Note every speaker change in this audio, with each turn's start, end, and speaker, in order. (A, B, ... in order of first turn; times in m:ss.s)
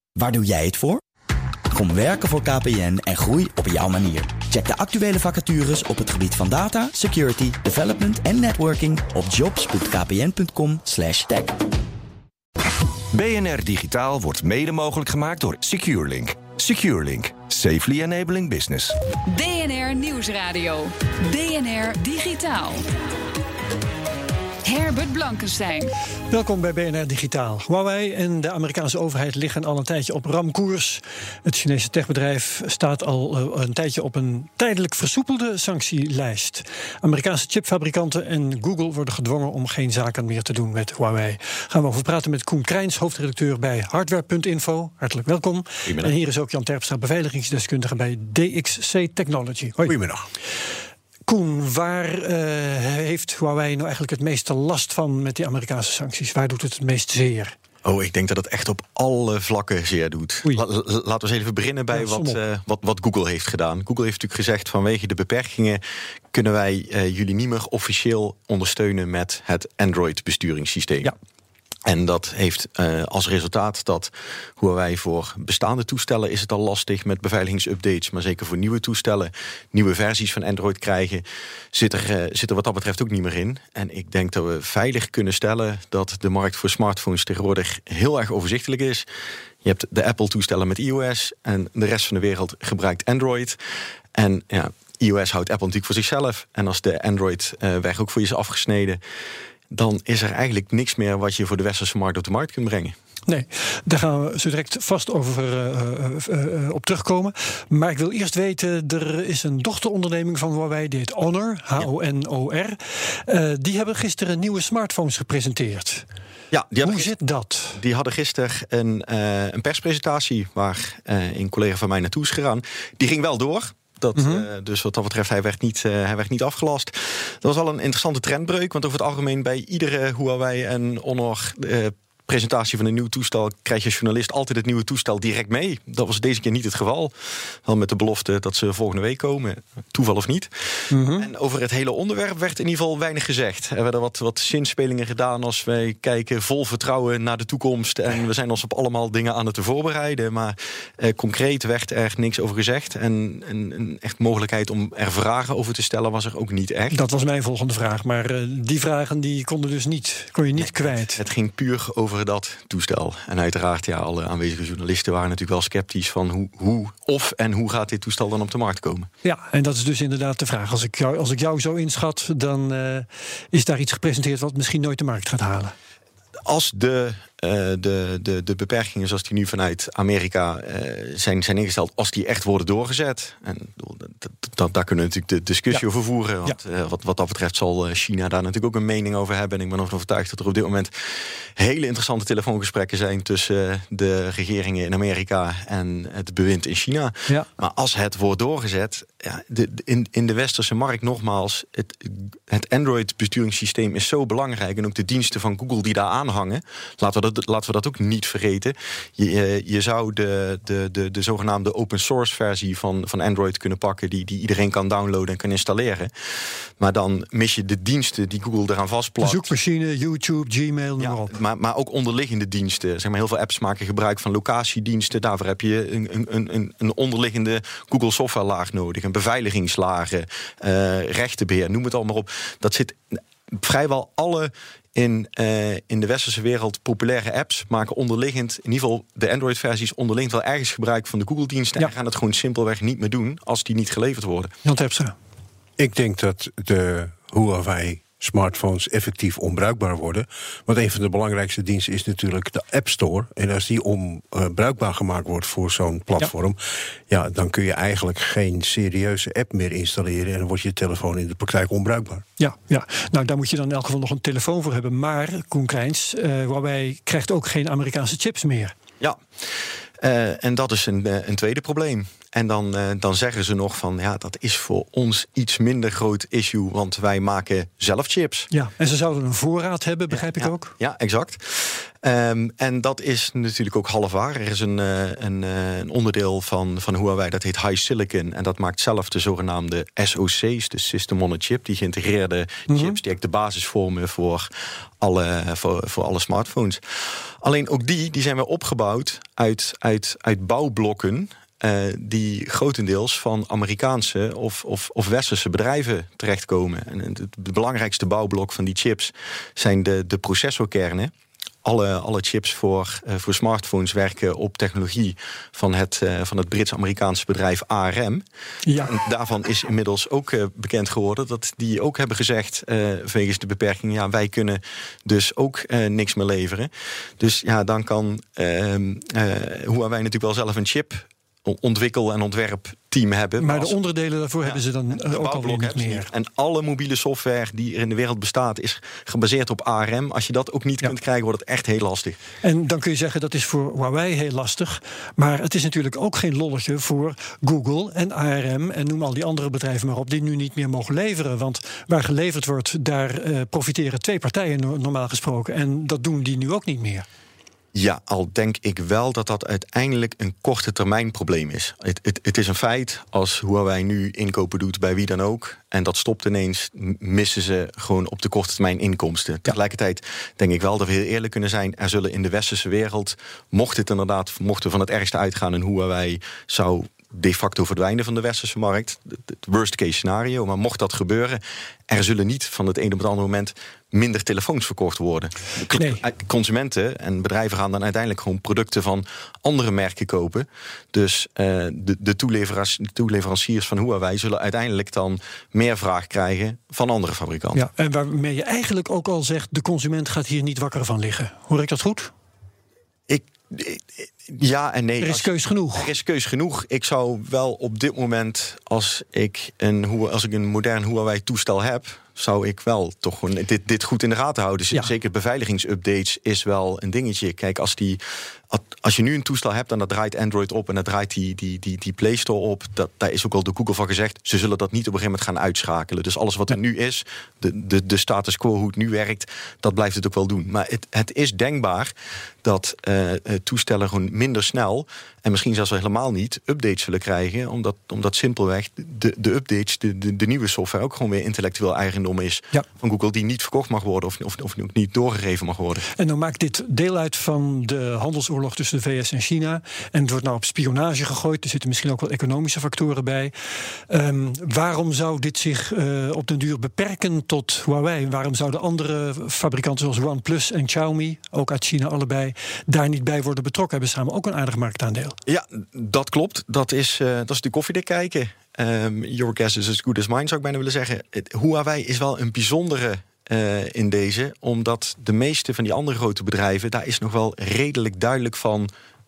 0:00.2-0:01.0 A
0:01.7-0:11.6 A
0:13.2-0:18.8 B
0:19.3-0:22.8 C
0:24.6-0:25.9 C
0:26.3-0:50.0 D
0:45.9-0:46.1 E
0:49.8-0:50.3 F
0:51.3-0:57.6 D
0:57.8-1:11.1 E
1:01.9-1:02.4 D
1:11.9-1:29.1 E
1:29.6-1:33.6 E
1:34.2-1:39.0 E
1:39.7-1:43.0 E
1:43.3-1:56.1 D
1:56.5-1:57.1 E
1:56.8-1:57.8 D
1:57.7-2:17.1 E
2:04.2-2:04.5 D
2:17.6-2:20.5 E
2:20.9-2:21.3 D
2:21.2-2:37.0 E
2:36.9-2:41.2 D
2:40.5-2:49.1 E
2:49.2-2:55.7 D
2:56.5-3:36.1 E
3:36.8-3:39.5 E
3:39.2-3:41.4 D
3:41.0-4:04.5 E
4:04.6-4:05.1 D
4:05.8-4:16.6 F
4:17.1-4:22.2 F
4:22.4-4:28.8 D
4:30.0-4:38.5 E
4:38.5-4:40.8 D
4:40.3-4:54.5 E
4:52.7-4:53.0 D
4:55.0-4:56.8 E
4:57.4-5:11.1 E
5:11.6-5:18.2 E
5:18.6-5:19.0 D
5:18.8-5:33.8 E
5:33.4-5:36.1 D
5:34.4-5:42.2 E
5:42.4-5:57.1 D
5:57.7-6:37.7 E
6:25.7-6:26.0 D
6:37.5-6:42.1 D
6:43.1-7:11.9 E
6:45.0-6:45.9 D
7:12.4-7:25.8 E
7:26.0-7:33.4 D
7:33.9-7:45.2 D
7:45.3-7:58.7 E